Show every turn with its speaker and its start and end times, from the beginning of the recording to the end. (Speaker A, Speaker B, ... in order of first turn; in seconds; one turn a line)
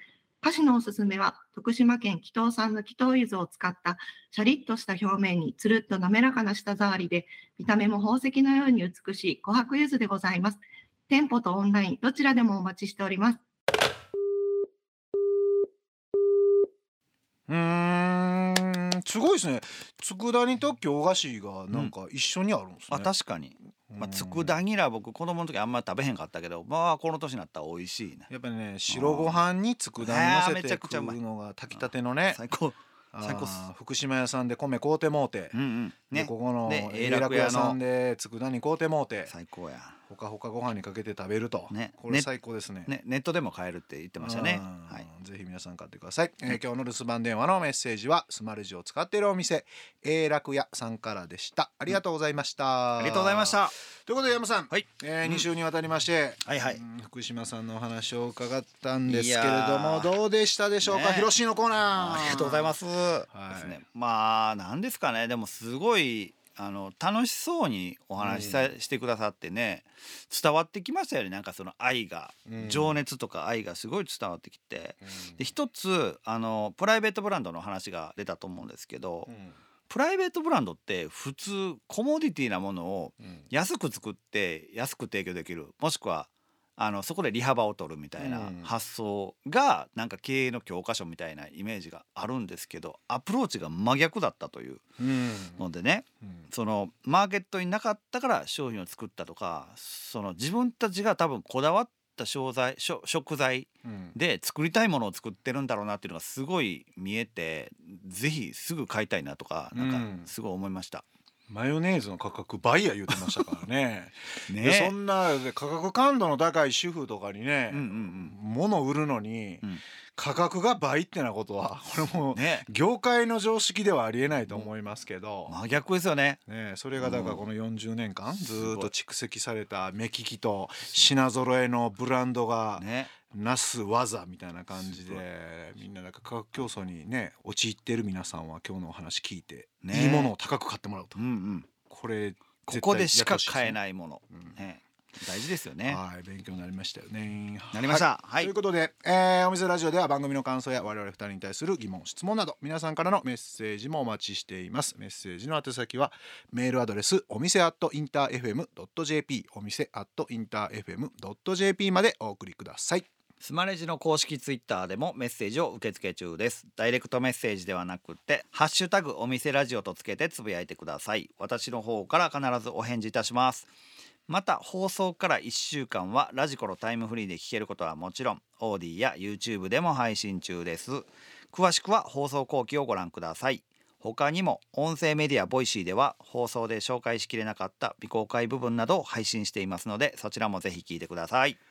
Speaker A: 0.4-13.4
Speaker B: 17.5-23.1
Speaker C: 22.9-28.3
Speaker B: 23.9-24.6
Speaker B: 28.3-32.4
Speaker C: 28.9-29.4
Speaker C: 30.0-31.2
Speaker C: 31.8-33.7
Speaker B: 33.1-35.6
Speaker C: 35.5-37.8
Speaker B: 36.1-39.3
Speaker C: 39.3-40.0
Speaker B: 40.1-42.9
Speaker C: 41.7-42.3
Speaker C: 42.9-45.1
Speaker B: 44.2-62.7
Speaker C: 53.0-53.8
Speaker C: 54.7-55.5
Speaker C: 56.5-56.8
Speaker C: 59.1-60.2
Speaker C: 60.8-61.3
Speaker C: 62.0-79.3
Speaker B: 63.3-63.8
Speaker B: 68.2-68.7
Speaker B: 72.5-73.0
Speaker B: 75.0-75.4
Speaker B: 79.3-79.6
Speaker C: 79.9-94.8
Speaker B: 88.2-88.7
Speaker B: 95.0-95.6
Speaker C: 95.6-111.0
Speaker B: 103.8-104.2
Speaker B: 109.8-110.3
Speaker B: 111.5-119.6
Speaker C: 114.5-114.9
Speaker C: 117.7-118.3
Speaker B: 120.2-125.6
Speaker C: 122.3-122.7
Speaker C: 125.5-126.4
Speaker B: 126.5-141.2
Speaker C: 127.0-127.4
Speaker C: 128.5-128.9
Speaker C: 132.8-133.1
Speaker C: 134.8-135.2
Speaker C: 139.8-140.3
Speaker C: 141.2-141.7
Speaker B: 141.9-143.8
Speaker C: 142.7-146.0
Speaker B: 145.9-163.1
Speaker C: 147.7-148.5
Speaker C: 163.4-173.7
Speaker C: 174.3-191.6